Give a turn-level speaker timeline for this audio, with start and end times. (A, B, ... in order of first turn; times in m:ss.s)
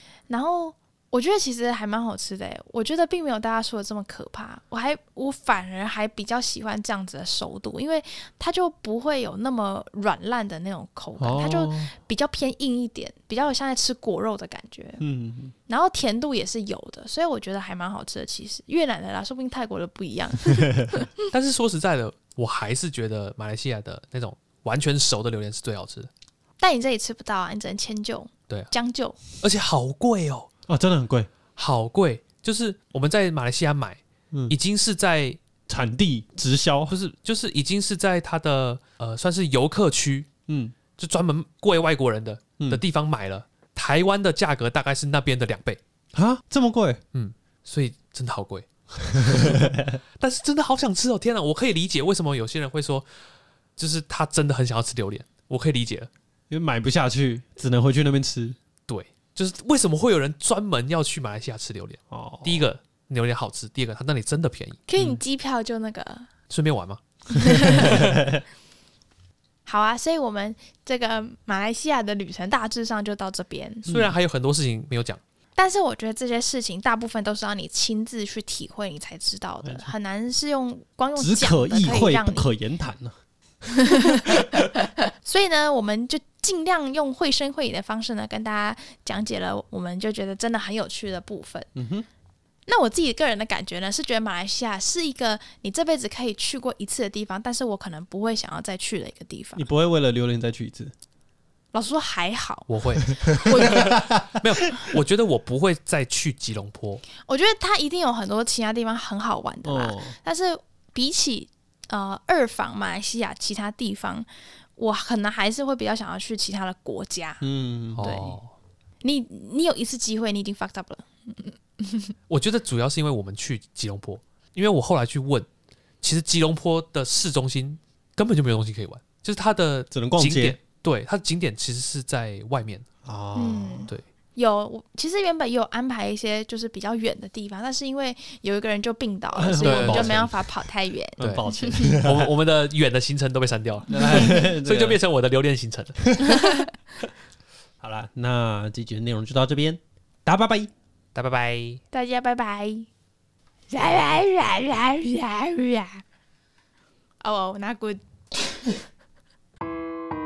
0:00.3-0:15.0 A
0:11.2-0:11.9 B
0:15.0-0:15.5 B
0:15.7-0:21.1 A
0:20.5-0:20.9 B
0:21.2-0:26.1 C
0:26.6-0:29.2 A
0:29.3-0:30.5 C
0:30.7-0:31.3 B
0:31.6-0:35.4 C
0:35.7-0:36.9 B
0:36.9-0:40.3 C
0:40.5-0:40.8 B
0:41.0-0:45.8 C
0:46.1-0:47.0 B
0:47.1-0:53.1 C
0:49.1-0:50.0 B
0:53.8-0:56.1 C
0:56.5-0:58.6 B
0:58.9-1:04.8 C
1:02.1-1:02.7 B
1:04.9-1:06.3 A
1:06.5-1:08.2 C
1:07.3-1:08.0 A
1:07.8-1:08.4 B
1:09.6-1:13.8 A
1:13.8-1:14.1 B
1:13.9-1:15.2 C
1:15.6-1:22.5 A
1:19.6-1:19.9 B
1:21.2-1:23.1 B
1:23.7-1:24.6 A
1:25.2-1:31.7 A
1:31.7-1:32.1 B
1:32.7-1:39.6 A
1:39.6-1:40.9 B
1:41.7-1:42.7 A
1:42.7-1:47.0 C
1:43.2-1:44.4 B
1:43.3-1:43.9 A
1:47.2-1:57.4 A
1:49.6-1:50.2 B
1:57.4-1:58.1 B
1:58.0-1:58.5 C
1:58.0-1:58.3 A
1:59.0-2:02.1 A
2:02.3-2:05.5 C
2:06.0-2:12.9 C
2:09.9-2:10.6 B
2:13.0-2:13.9 B
2:13.3-2:22.0 A
2:19.4-2:20.5 B
2:19.6-2:20.2 C
2:21.2-2:22.3 B
2:21.2-2:26.7 C
2:23.9-2:25.0 B
2:27.8-2:30.7 B
2:31.1-2:31.8 C
2:31.9-2:32.9 A
2:33.7-2:36.0 A
2:37.2-2:38.0 A